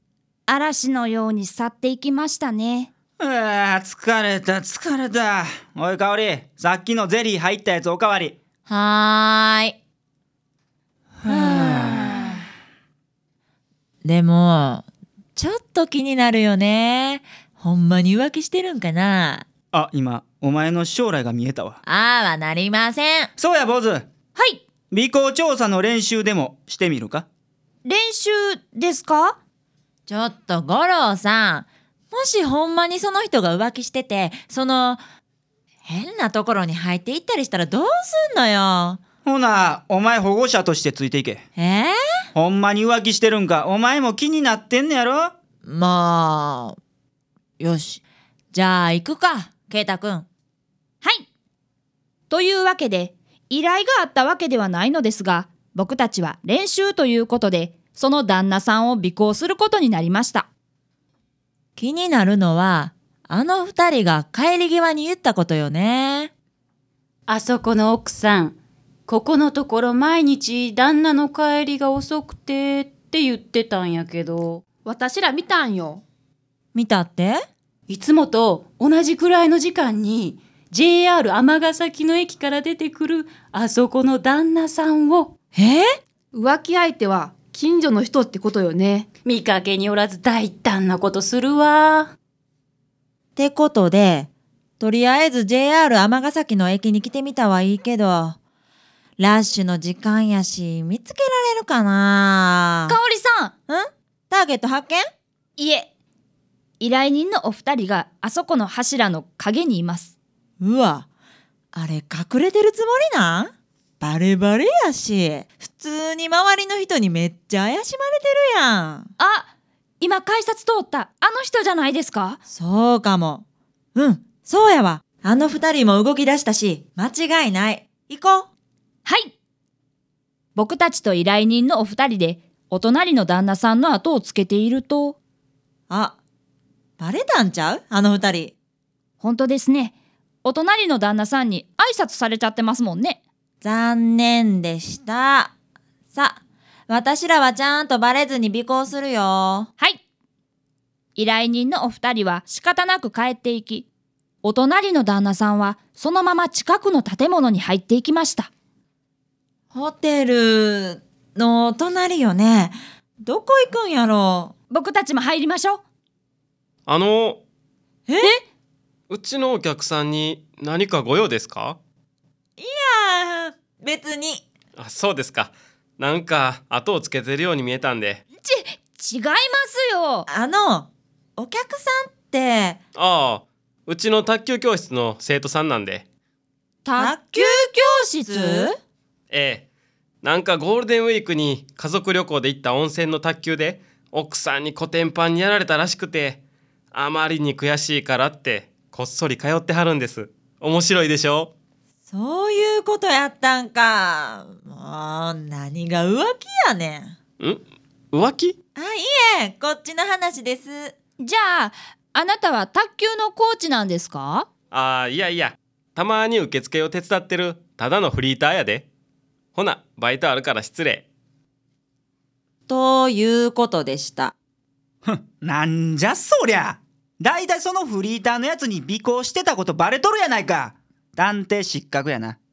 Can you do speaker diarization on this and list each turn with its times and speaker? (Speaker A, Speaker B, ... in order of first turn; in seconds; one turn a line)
Speaker A: 0.5-2.9
Speaker B: 3.2-8.3
Speaker C: 8.7-9.8
Speaker B: 11.2-12.0
Speaker C: 11.3-12.3
Speaker C: 14.0-19.4
Speaker B: 19.7-21.8
Speaker C: 21.8-23.3
Speaker B: 23.4-24.1
Speaker A: 24.3-24.6
Speaker B: 24.9-27.2
Speaker A: 27.8-29.4
Speaker C: 30.1-35.0
Speaker C: 35.8-39.0
Speaker B: 39.2-41.4
Speaker C: 41.6-42.0
Speaker B: 42.3-45.3
Speaker C: 45.6-46.8
Speaker C: 47.6-48.0
Speaker C: 48.5-50.2
Speaker A: 52.3-60.5
Speaker C: 61.8-66.3
Speaker D: 67.3-74.6
Speaker E: 74.8-76.0
Speaker C: 76.7-77.4
Speaker D: 77.9-85.3
Speaker C: 85.5-85.9
Speaker E: 86.3-89.1
Speaker D: 89.2-92.1
Speaker C: 93.3-94.3
Speaker C: 94.8-98.4
Speaker C: 99.2-103.0
Speaker A: 102.9-103.5
Speaker C: 103.7-105.0
Speaker A: 105.6-105.9
Speaker A: 106.8-110.1
Speaker C: 110.6-111.1
Speaker C: 111.7-119.1
Speaker A: 119.2-122.4
Speaker C: 122.5-123.4
Speaker C: 123.9-128.5
Speaker A: 129.0-129.3
Speaker A: 130.5-135.2
Speaker C: 135.9-136.2
Speaker C: 137.0-138.5
Speaker A: 139.2-143.2
Speaker C: 143.6-145.5
Speaker C: 146.1-149.7
Speaker A: 151.2-153.9
Speaker A: 154.4-158.5
Speaker C: 159.7-164.5
Speaker A: 164.7-165.8
Speaker F: 166.9-167.4
Speaker C: 168.1-168.4
Speaker F: 169.1-171.8
Speaker C: 172.6-174.4
Speaker F: 174.8-178.2
Speaker A: 178.4-180.3
Speaker C: 180.3-182.8
Speaker F: 182.9-186.0
Speaker A: 186.8-188.7
Speaker C: 187.0-188.7
Speaker F: 189.3-189.6
Speaker F: 190.2-201.5
Speaker C: 202.1-207.2
Speaker F: 207.4-208.6
Speaker C: 208.8-210.9
Speaker A: 211.2-214.5
Speaker F: 214.7-218.9
Speaker F: 219.5-221.1
Speaker C: 222.7-224.3
Speaker B: 225.0-232.4